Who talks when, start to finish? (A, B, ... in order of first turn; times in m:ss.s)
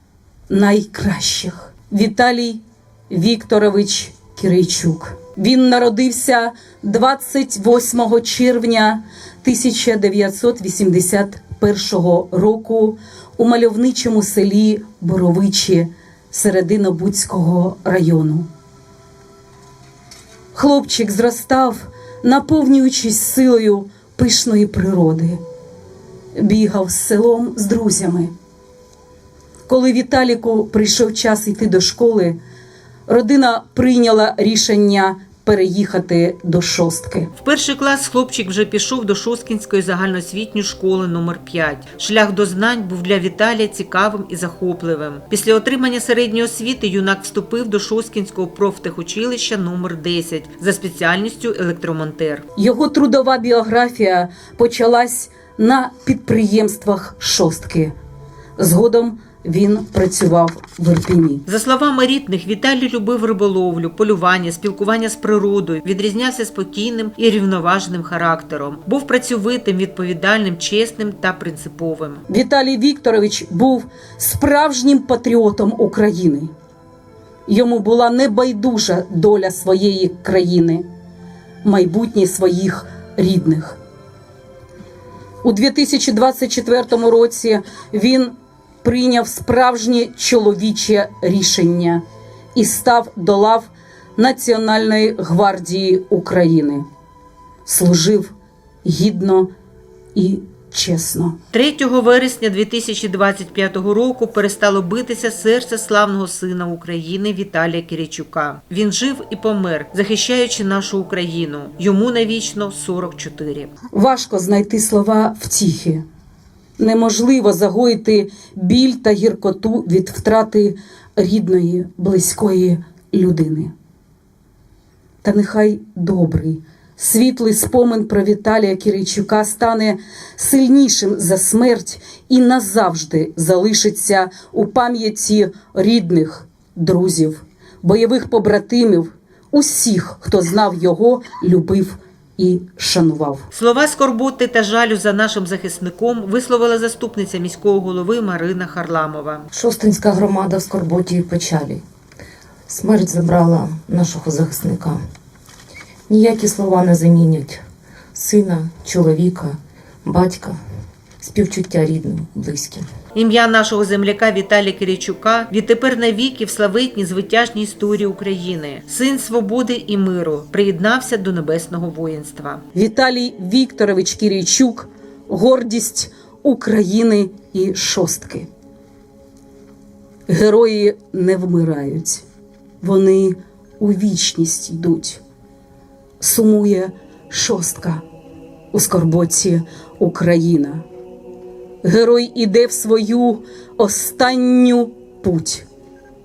0:00.5-0:18.5 A
0:20.5-0:25.4 A
0:26.4-0:28.3 A
0:29.7-0:32.4 A
0:33.1-0:37.3 A
0:37.4-0:52.4 B
0:52.6-0:57.9 A
0:58.6-1:01.4 A
1:01.4-1:12.2 B
1:12.3-1:16.5 A
1:17.5-1:20.8 A
1:21.6-1:23.8 A
1:25.4-1:32.0 A
1:32.6-1:36.8 A
1:37.7-1:38.3 A
1:38.8-1:39.5 A
1:40.1-1:41.4 A
1:41.5-1:53.7 B
1:53.9-1:56.0 A
1:56.8-2:03.7 A
2:05.2-2:23.5 A
2:23.5-2:29.5 B
2:29.5-2:31.8 C
2:32.7-2:35.0 C
2:36.1-2:40.6 C
2:41.2-2:42.9 C
2:43.2-2:52.6 B
2:52.8-2:58.5 A
3:00.3-3:02.2 A
3:02.8-3:05.2 A
3:06.2-3:08.0 A
3:08.7-3:10.8 A
3:11.8-3:15.7 A